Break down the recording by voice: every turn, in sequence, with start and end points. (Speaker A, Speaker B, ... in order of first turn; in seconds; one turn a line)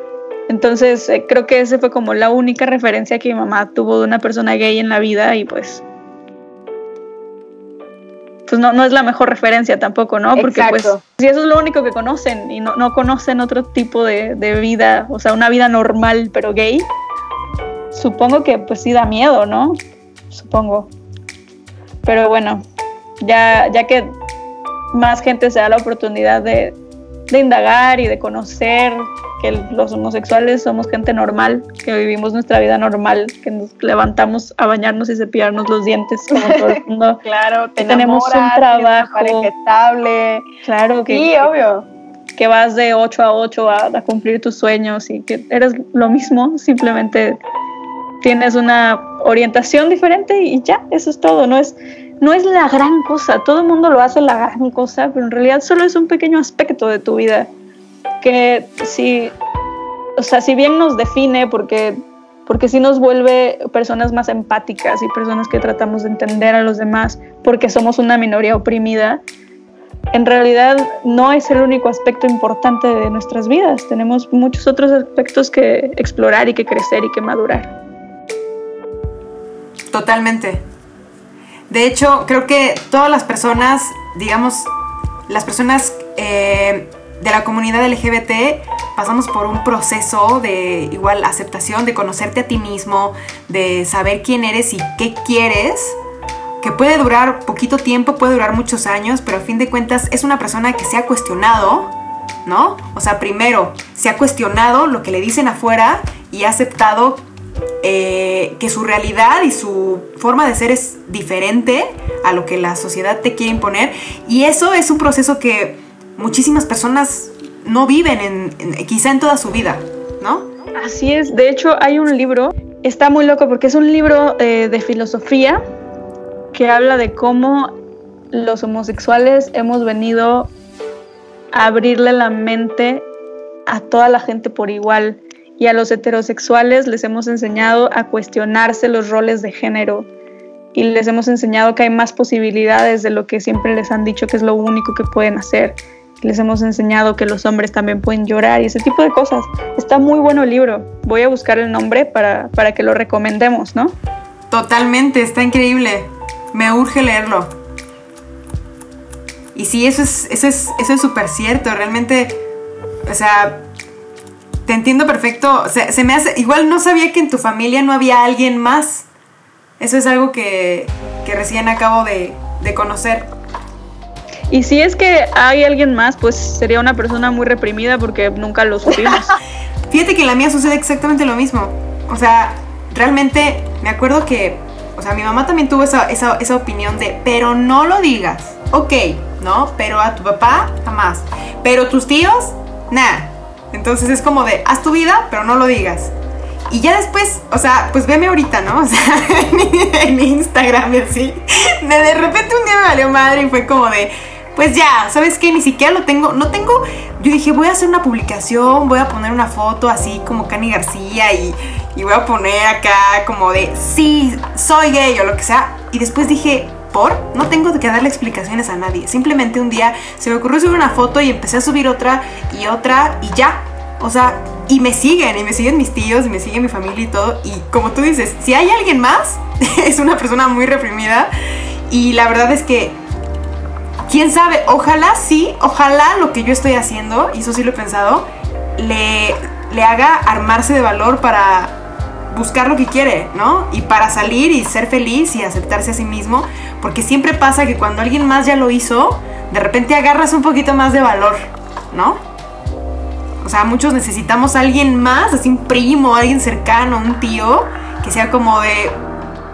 Speaker A: 0.5-5.8
Speaker A: 8.5-16.9
Speaker B: 10.3-11.0
Speaker A: 17.9-20.9
Speaker A: 22.0-22.6
Speaker A: 23.2-24.1
Speaker A: 24.9-26.8
Speaker A: 27.3-37.2
Speaker B: 36.4-40.5
Speaker A: 37.8-39.5
Speaker A: 40.6-41.5
Speaker B: 41.1-41.9
Speaker A: 42.4-47.4
Speaker A: 48.2-57.5
Speaker A: 58.2-59.4
Speaker A: 60.2-69.2
Speaker A: 70.1-77.7
Speaker C: 79.9-80.6
Speaker C: 81.7-84.7
Speaker C: 85.3-96.0
Speaker C: 96.6-101.9
Speaker C: 102.4-107.2
Speaker C: 107.8-120.5
Speaker A: 120.8-125.6
Speaker A: 126.5-127.8
Speaker A: 128.3-130.5
Speaker A: 131.5-133.1
Speaker A: 133.7-140.1
Speaker A: 140.7-153.9
Speaker C: 154.5-157.5
Speaker C: 159.5-162.4
Speaker C: 163.1-163.7
Speaker C: 164.6-169.1
Speaker C: 169.8-173.3
Speaker A: 174.5-179.3
Speaker C: 179.9-196.1
Speaker C: 196.7-231.3
Speaker C: 231.9-233.0
Speaker C: 234.1-241.8
Speaker C: 242.3-252.2
Speaker C: 253.4-259.0